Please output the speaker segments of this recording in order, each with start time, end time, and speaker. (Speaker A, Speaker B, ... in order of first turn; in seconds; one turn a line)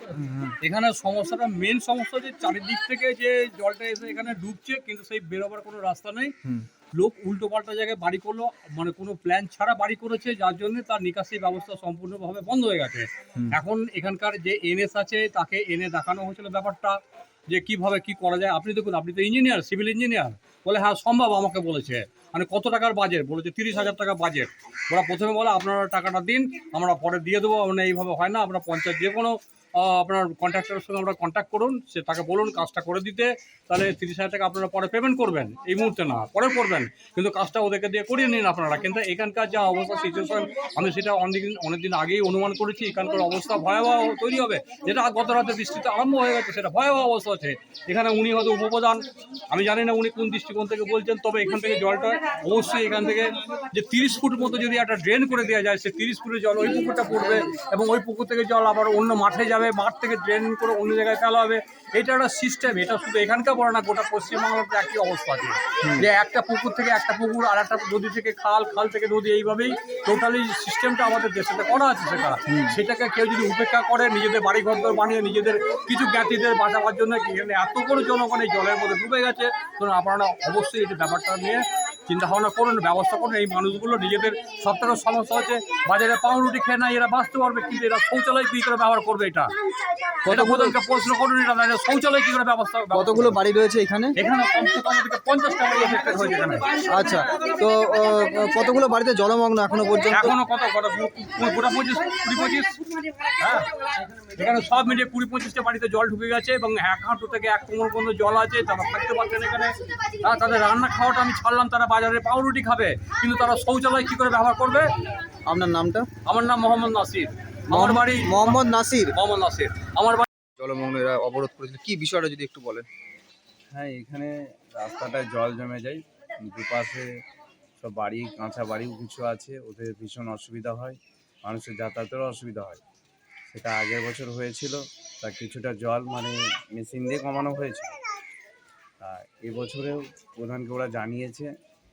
Speaker A: 0.1-0.5
Speaker B: 0.6-6.3
Speaker B: 6.9-89.5
Speaker A: 72.5-72.7
Speaker A: 90.3-90.8
Speaker B: 90.3-93.4
Speaker A: 92.9-94.2
Speaker B: 94.2-96.9
Speaker A: 96.9-100.3
Speaker B: 100.1-102.8
Speaker B: 103.4-103.7
Speaker B: 104.4-114.9
Speaker A: 115.5-116.1
Speaker B: 116.3-118.6
Speaker A: 117.7-119.1
Speaker B: 119.2-120.3
Speaker A: 120.6-122.9
Speaker C: 123.7-127.1
Speaker C: 127.8-132.8
Speaker C: 133.5-138.0
Speaker C: 139.0-141.5